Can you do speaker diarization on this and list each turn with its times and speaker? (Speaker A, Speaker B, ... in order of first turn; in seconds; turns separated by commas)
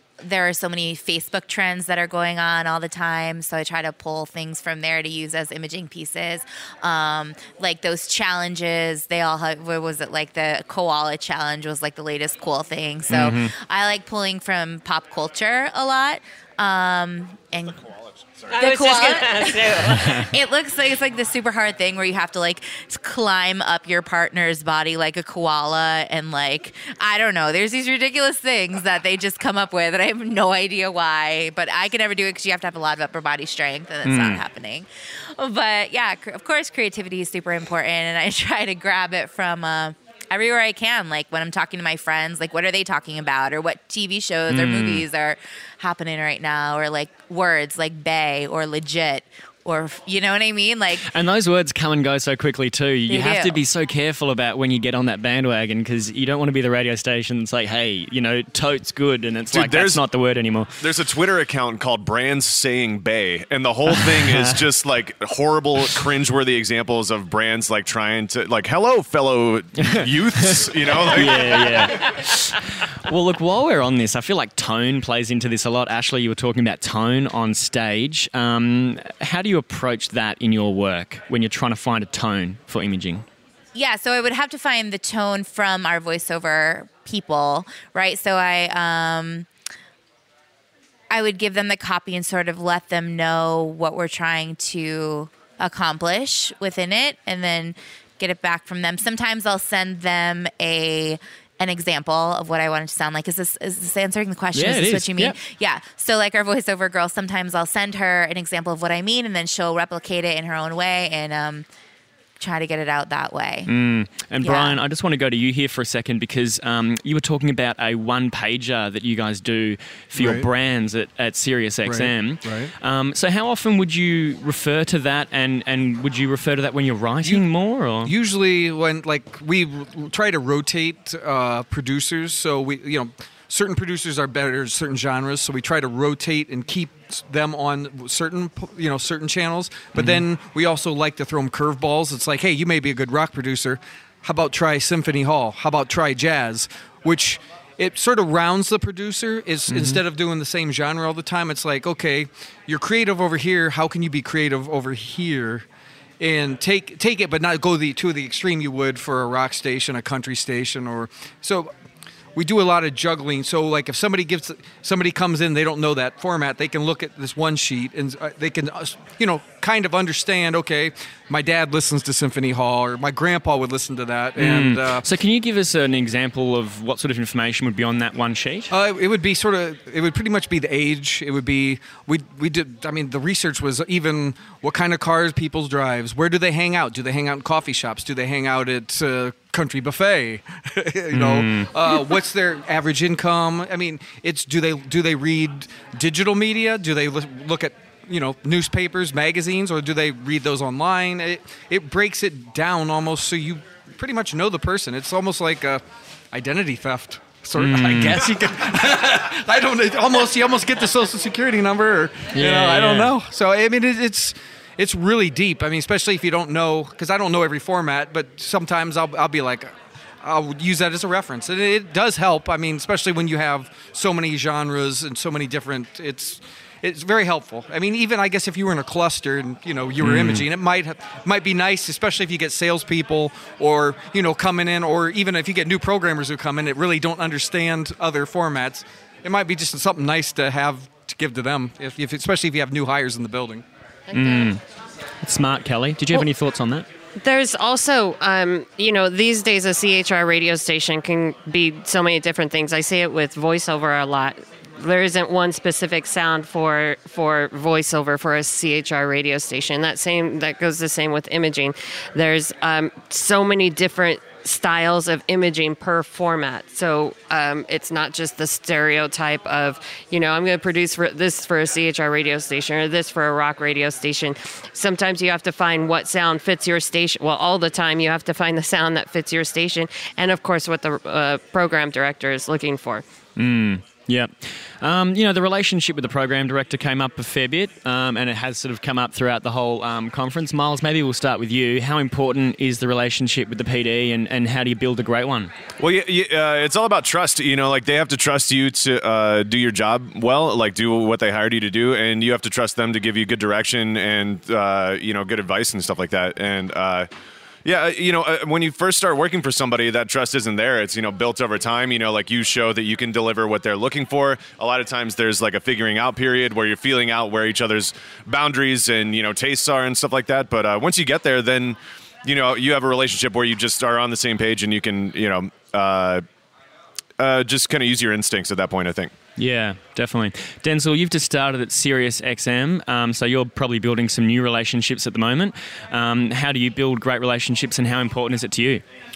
Speaker A: 0.2-17.8, Speaker B: 13.1-13.5, Speaker C: 18.5-20.3, Speaker A: 18.5-51.1, Speaker B: 34.0-34.4, Speaker B: 44.5-45.0, Speaker B: 50.9-60.8, Speaker A: 53.1-53.6, Speaker D: 59.5-60.1, Speaker D: 60.8-71.9, Speaker B: 69.8-83.2, Speaker A: 83.7-89.5, Speaker A: 91.1-111.7, Speaker B: 104.5-105.4, Speaker A: 112.4-113.7, Speaker B: 113.7-128.1, Speaker A: 114.4-114.8, Speaker E: 120.2-120.5, Speaker E: 121.8-122.7, Speaker E: 128.0-155.6, Speaker B: 139.9-140.2, Speaker B: 149.7-150.0, Speaker E: 156.2-161.7, Speaker E: 162.3-175.1, Speaker B: 174.4-178.7, Speaker E: 178.7-243.6, Speaker B: 191.1-191.7, Speaker B: 207.6-208.2, Speaker B: 212.3-213.1, Speaker B: 230.0-230.4, Speaker C: 244.1-244.5, Speaker B: 244.1-244.6, Speaker B: 245.2-246.8, Speaker C: 247.2-283.0, Speaker B: 283.4-295.5, Speaker D: 295.8-307.1, Speaker D: 307.6-326.2, Speaker D: 327.2-329.1, Speaker B: 329.4-338.8